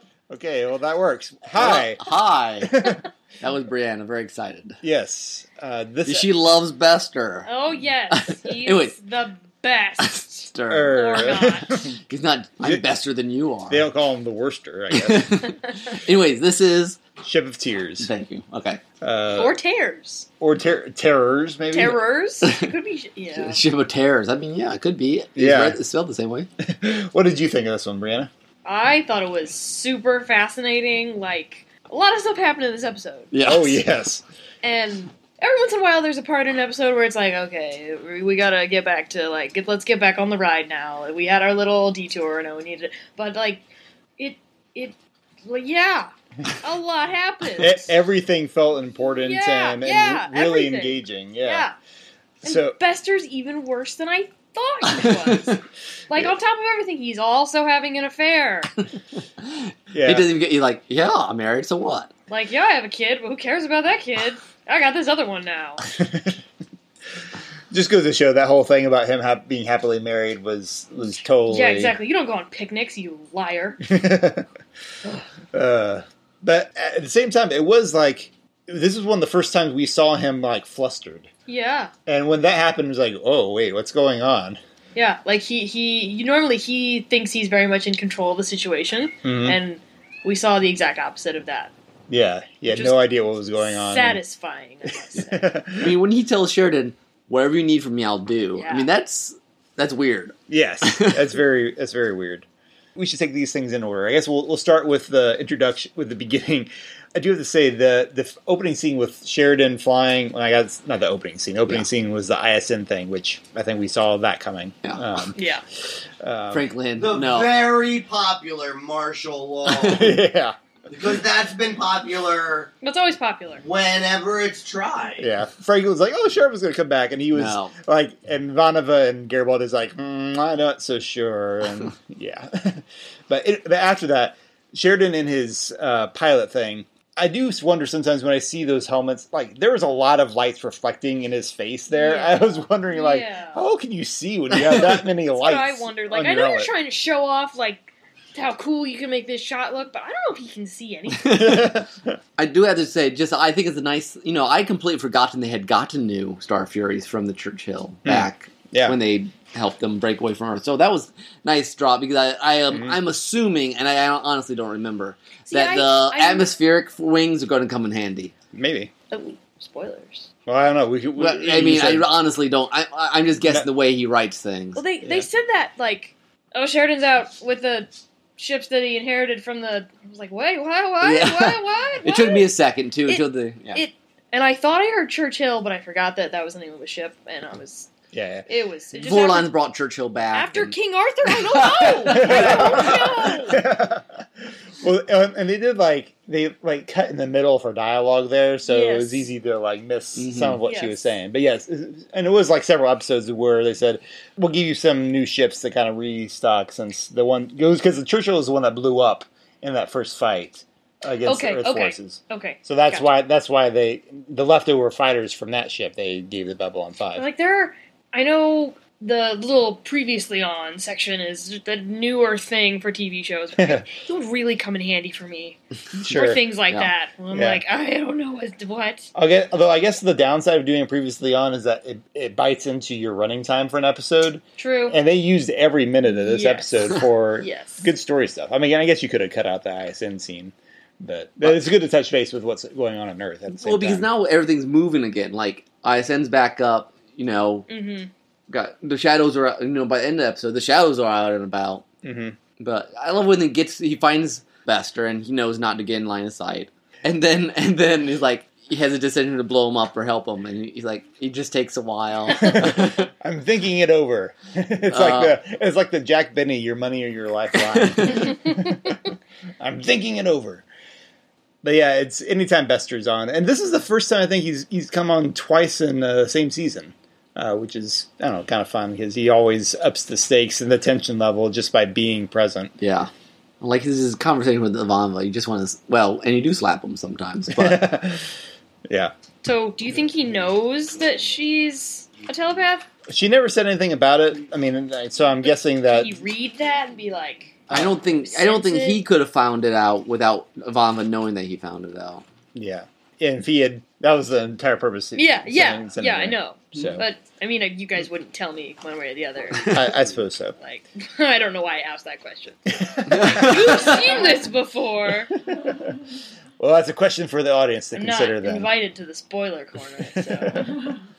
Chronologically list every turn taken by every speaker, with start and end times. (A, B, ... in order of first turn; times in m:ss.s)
0:00.3-0:02.1 A
0:01.6-0:02.8 B
0:02.7-0:03.0 A
0:03.4-0:04.8 B
0:04.8-0:06.3 A
0:06.1-0:07.5 B
0:07.5-0:11.9 C
0:08.1-0:09.0 B
0:10.0-0:11.4 B
0:10.7-0:11.9 A
0:12.1-0:13.9 B
0:13.7-0:15.5 A
0:14.9-0:17.0 B
0:17.2-0:18.1 A
0:18.0-0:18.8 B
0:19.0-0:19.6 A
0:19.3-0:20.3 C
0:20.4-0:22.0 A
0:21.7-0:23.6 C
0:22.4-0:22.7 B
0:23.4-0:26.5 B
0:25.4-0:25.8 A
0:26.6-0:28.3 A
0:28.6-0:33.3 C
0:33.3-0:33.8 B
0:33.4-0:34.2 A
0:34.6-0:43.7 C
0:44.2-0:47.9 C
0:47.6-0:51.7 A
0:49.2-0:51.8 C
0:52.4-0:58.8 C
0:52.4-0:52.8 A
0:55.0-0:55.3 B
0:59.4-1:02.1 B
0:59.9-1:00.3 A
1:02.3-1:05.8 C
1:05.9-1:06.4 A
1:07.7-1:12.0 A
1:11.5-1:13.8 C
1:13.8-1:14.4 A
1:15.5-1:21.3 A
1:21.5-1:21.9 C
1:22.1-1:24.6 A
1:25.0-1:31.7 C
1:29.2-1:29.6 A
1:32.1-1:34.2 A
1:32.7-1:35.6 C
1:34.9-1:36.0 A
1:35.8-1:41.2 B
1:38.6-1:38.9 C
1:40.5-1:42.4 A
1:43.0-1:55.4 A
1:55.4-1:55.6 C
1:56.2-1:56.7 A
1:56.5-1:57.5 B
1:57.0-2:00.1 D
1:59.6-2:00.5 A
2:00.9-2:02.7 D
2:02.8-2:03.6 C
2:03.6-2:05.3 D
2:05.2-2:26.7 A
2:07.3-2:07.8 B
2:21.9-2:23.6 C
2:25.3-2:31.7 C
2:31.2-2:31.7 B
2:31.3-2:32.2 A
2:32.4-2:48.3 B
2:38.0-2:39.0 A
2:42.7-2:43.0 A
2:45.5-2:46.6 C
2:48.5-2:48.9 A
2:49.1-2:50.3 C
2:50.5-2:52.1 A
2:51.2-2:54.8 B
2:54.8-3:02.5 C
3:01.0-3:03.8 B
3:03.1-3:07.9 C
3:08.1-3:08.5 A
3:08.5-3:09.5 C
3:08.9-3:10.8 B
3:10.3-3:13.6 C
3:11.4-3:13.0 B
3:12.1-3:14.2 A
3:14.8-3:37.3 A
3:18.7-3:19.3 C
3:20.2-3:20.6 B
3:20.6-3:21.2 C
3:31.3-3:33.1 C
3:37.2-3:49.1 C
3:43.6-3:43.9 A
3:46.0-3:46.4 A
3:47.3-3:47.6 A
3:49.2-4:04.1 A
3:54.6-3:55.0 C
3:56.2-3:56.7 C
3:57.4-3:57.9 C
4:03.6-4:07.7 B
4:07.7-4:08.1 C
4:08.5-4:11.8 B
4:12.0-4:12.4 A
4:12.6-4:23.1 B
4:22.4-4:29.0 A
4:24.9-4:25.4 B
4:27.6-4:28.2 B
4:29.6-4:30.6 A
4:31.6-4:42.7 A
4:42.8-4:47.8 B
4:47.5-4:48.3 A
4:48.9-4:49.1 A
4:49.4-4:52.9 C
4:53.1-4:56.1 A
4:55.9-4:59.0 C
4:57.7-4:58.0 A
4:57.7-5:02.2 B
5:02.6-5:07.0 A
5:05.2-5:09.9 C
5:09.6-5:10.6 A
5:10.6-5:12.6 C
5:12.7-5:14.0 A
5:13.1-5:13.6 B
5:13.3-5:15.3 C
5:15.4-5:16.0 A
5:16.6-5:18.7 A
5:18.0-5:20.9 C
5:20.1-5:20.8 A